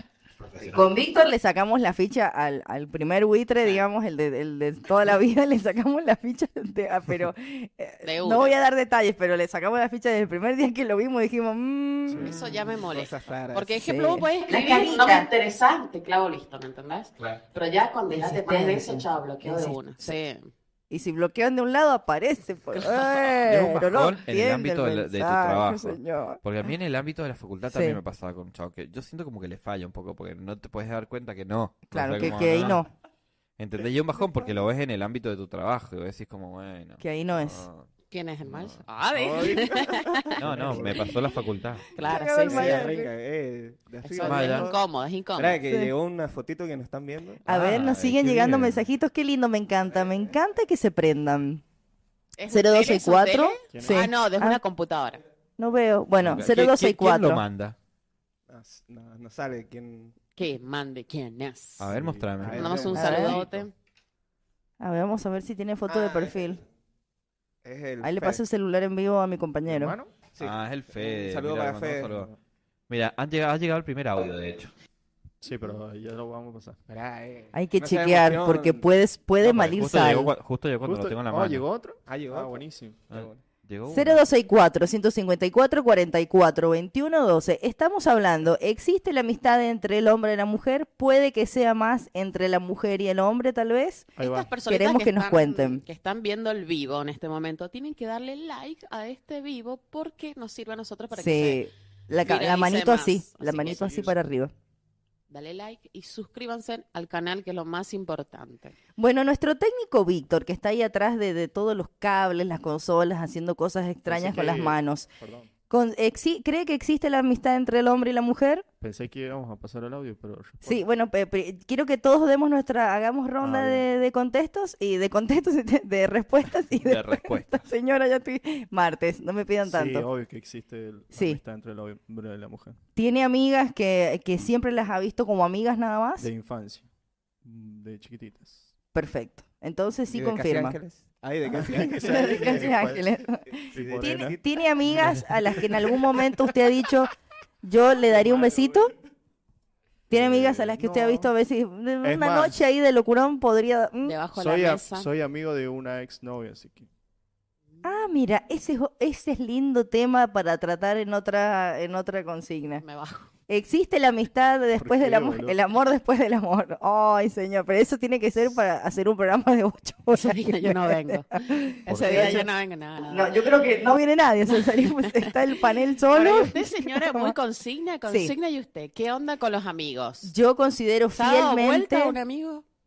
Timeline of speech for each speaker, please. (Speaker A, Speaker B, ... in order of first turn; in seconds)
Speaker A: 0.4-0.8, 23.4-32.8, 33.6-37.9, 38.5-38.8, 40.4-41.8, 44.2-44.7, 47.5-48.8, 56.2-57.8, 61.8-63.3, 70.4-72.3, 72.9-74.7, 79.4-81.6, 83.1-84.2, 126.8-127.7
Speaker B: 0.7-12.3, 13.7-15.3, 18.1-20.1, 20.9-26.4, 27.7-28.0, 31.9-32.9, 37.0-37.7, 42.0-43.1, 45.6-45.9, 47.5-51.6, 52.5-54.6, 55.6-57.4, 62.9-63.4, 64.8-66.6, 68.0-70.0, 77.5-80.3, 83.9-95.8, 101.1-104.5, 109.0-115.1, 115.7-118.7, 120.6-130.1, 131.1-131.4, 132.9-136.3, 138.9-140.8, 141.8-147.1, 147.6-148.9, 150.1-154.1, 157.8-162.8, 163.5-172.5, 173.1-177.3, 178.1-178.3, 180.2-182.2
Speaker C: 8.0-8.5, 12.2-20.5, 22.7-23.3, 38.1-40.3, 41.9-43.0, 44.0-45.6, 52.4-55.2, 60.4-61.9, 62.5-63.7, 94.2-101.6, 102.2-104.1, 105.3-108.7, 154.0-155.1, 162.8-163.3, 170.1-174.0, 174.6-175.3, 176.1-180.3, 181.1-182.6
Speaker D: 12.1-12.3, 48.3-48.6, 53.7-54.1, 61.9-62.9, 69.7-70.1, 75.4-76.8, 80.8-83.0, 94.2-94.5, 114.1-115.5, 118.8-120.8, 123.4-123.9, 129.6-132.8, 136.2-136.9, 137.4-138.7, 141.5-143.0, 143.7-144.4, 145.0-145.6, 148.3-148.6, 150.1-151.2, 152.0-152.5, 154.3-156.9, 164.8-165.6, 171.9-172.4
Speaker E: 12.9-13.8, 39.1-41.1, 42.4-44.8, 45.4-47.4, 49.9-50.3, 58.5-60.1, 62.4-63.5, 65.9-66.6, 67.6-68.4, 70.3-72.2, 76.9-78.8, 82.1-83.4, 140.1-142.9, 143.7-144.4